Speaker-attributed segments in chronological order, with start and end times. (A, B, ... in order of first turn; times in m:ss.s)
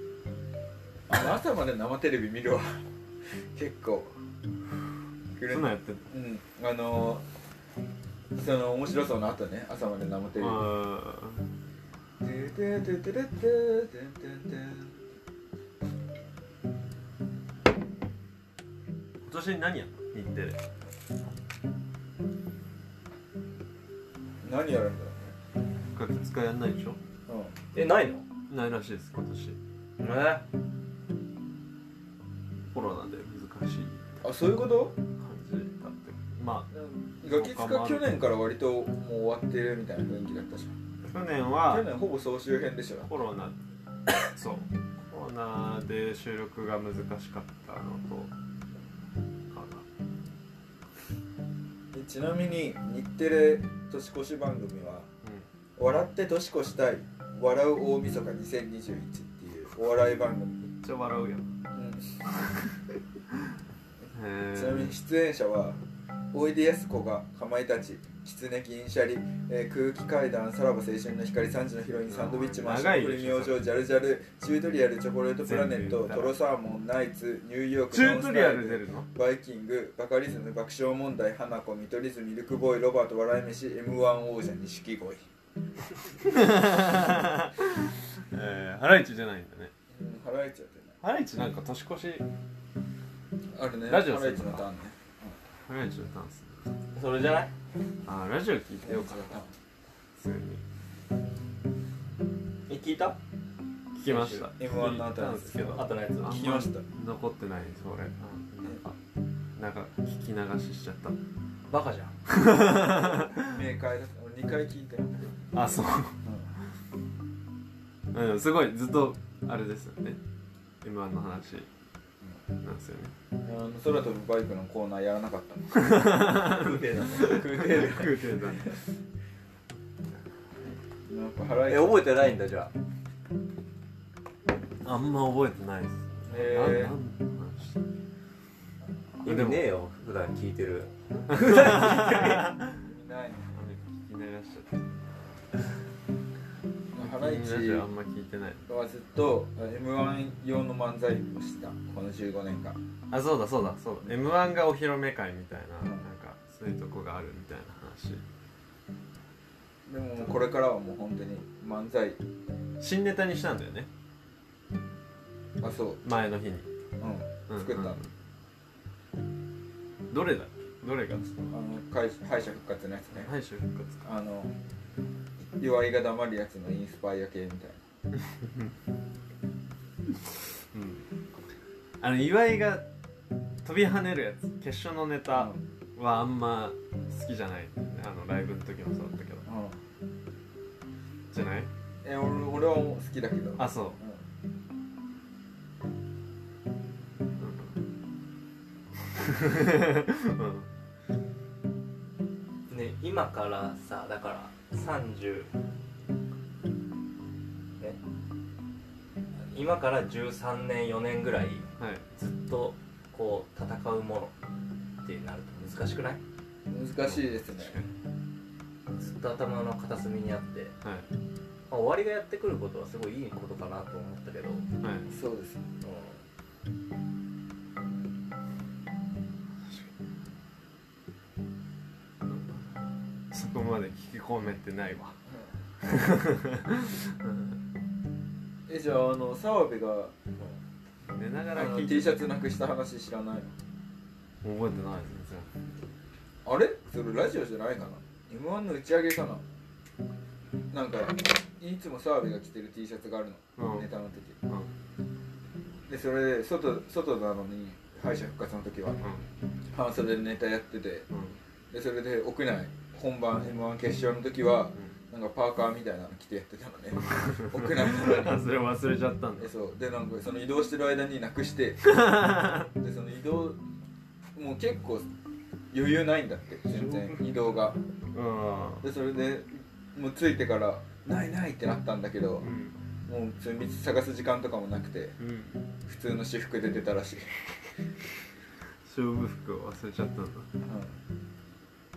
0:01.1-0:02.8 A
0:03.5-0:04.1 A
0:05.4-0:07.2 A
0:05.5-0:06.0 B
0:08.4-0:10.7 A
0:10.4-0:11.5 B
0:12.2-0:15.0 A
0:19.2-0:20.6 B
0:24.4-0:25.4 A
0:25.9-0:27.0 B
0:27.3-0:27.6 A
0:27.7-0:28.2 C
0:28.5-0:29.6 B
0:30.0-0:30.4 C
0:32.7-0:34.2 B
0:34.2-0:35.0 A
0:35.2-0:38.2 B
0:36.7-0:40.8 A
0:41.1-0:41.9 B
0:41.7-0:43.1 A
0:43.1-0:43.6 B
0:44.2-0:48.3 B
0:49.5-0:49.8 B
0:51.9-0:55.1 A
0:55.8-1:00.6 A
1:00.6-1:01.5 B
1:01.7-1:02.3 A
1:04.1-1:04.9 B
1:04.5-1:05.8 A
1:06.3-1:25.2 A
1:12.1-1:13.6 B
1:15.4-1:16.4 B
1:17.9-1:19.1 B
1:26.2-1:29.7 B
1:29.9-1:31.0 A
1:31.0-1:32.3 B
1:33.5-1:35.4 A
1:33.9-1:34.6 B
1:35.6-1:36.7 B
1:37.0-1:37.5 C
1:38.1-1:39.4 B
1:38.8-1:39.5 A
1:40.2-1:40.6 B
1:42.7-1:43.2 C
1:44.0-1:49.0 B
1:44.1-1:44.5 C
1:44.6-1:46.8 A
1:45.7-1:46.5 C
1:49.6-1:51.2 B
1:51.7-1:52.2 C
1:52.3-1:53.6 B
1:53.4-1:55.7 A
1:55.5-1:56.2 B
1:56.2-1:56.5 A
1:58.1-2:00.2 B
2:00.8-2:01.7 B
2:02.6-2:03.1 B
2:03.4-2:06.1 A
2:05.7-2:08.8 B
2:06.4-2:07.4 C
2:07.2-2:08.8 A
2:11.1-2:12.1 A
2:11.7-2:12.7 C
2:14.8-2:17.8 B
2:16.3-2:17.0 A
2:19.2-2:22.5 C
2:19.2-2:19.7 B
2:21.3-2:22.8 B
2:22.8-2:23.6 A
2:23.6-2:24.9 B
2:26.9-2:27.9 A
2:27.0-2:28.7 B
2:28.7-2:32.8 A
2:33.1-2:38.2 B
2:39.9-2:42.2 A
2:42.8-2:43.9 B
2:45.6-2:46.0 A
2:46.0-2:46.7 B
2:47.0-2:48.0 A
2:47.5-2:48.1 B
2:50.1-2:51.6 B
2:51.5-2:53.3 A
2:53.1-2:54.0 B
2:54.0-2:54.6 A
2:55.6-2:57.8 A
3:00.7-3:01.1 B
3:02.0-3:02.9 B
3:03.6-3:09.4 B
3:05.3-3:05.6 A
3:09.5-3:09.8 A
3:11.3-3:11.7 B
3:12.0-3:14.2 A
3:13.6-3:14.0 B
3:17.4-3:17.8 B
3:19.1-3:20.7 B
3:22.7-3:25.5 C
3:29.5-3:34.3 C
3:31.8-3:32.1 B
3:35.0-3:36.2 C
3:36.7-3:37.8 A
3:37.1-3:37.9 B
3:39.0-3:40.7 C
3:40.8-3:41.1 B
3:41.7-3:44.6 C
3:44.8-3:45.1 B
3:45.1-3:45.7 A
3:45.8-3:46.2 C
3:52.3-3:52.6 B
3:53.3-3:55.2 B
3:55.3-3:55.6 A
3:55.8-3:57.6 B
3:58.7-4:00.2 A
4:01.1-4:02.2 B
4:01.5-4:03.6 A
4:04.4-4:05.5 B
4:06.4-4:09.4 A
4:10.7-4:14.4 A
4:13.6-4:13.9 B
4:15.9-4:19.0 A
4:19.0-4:19.3 B
4:19.7-4:21.1 A
4:21.1-4:21.4 B
4:21.7-4:28.5 A
4:27.2-4:29.5 B
4:29.4-4:32.0 A
4:31.8-4:32.7 B
4:32.7-4:33.6 A
4:34.4-4:35.1 A
4:35.7-4:37.8 A
4:36.7-4:37.4 B
4:38.1-4:38.9 B
4:38.8-4:42.5 A
4:42.4-4:42.8 B
4:43.1-4:45.2 A
4:45.2-4:45.7 B
4:45.8-4:47.3 A
4:48.9-4:50.5 B
4:50.6-4:51.0 A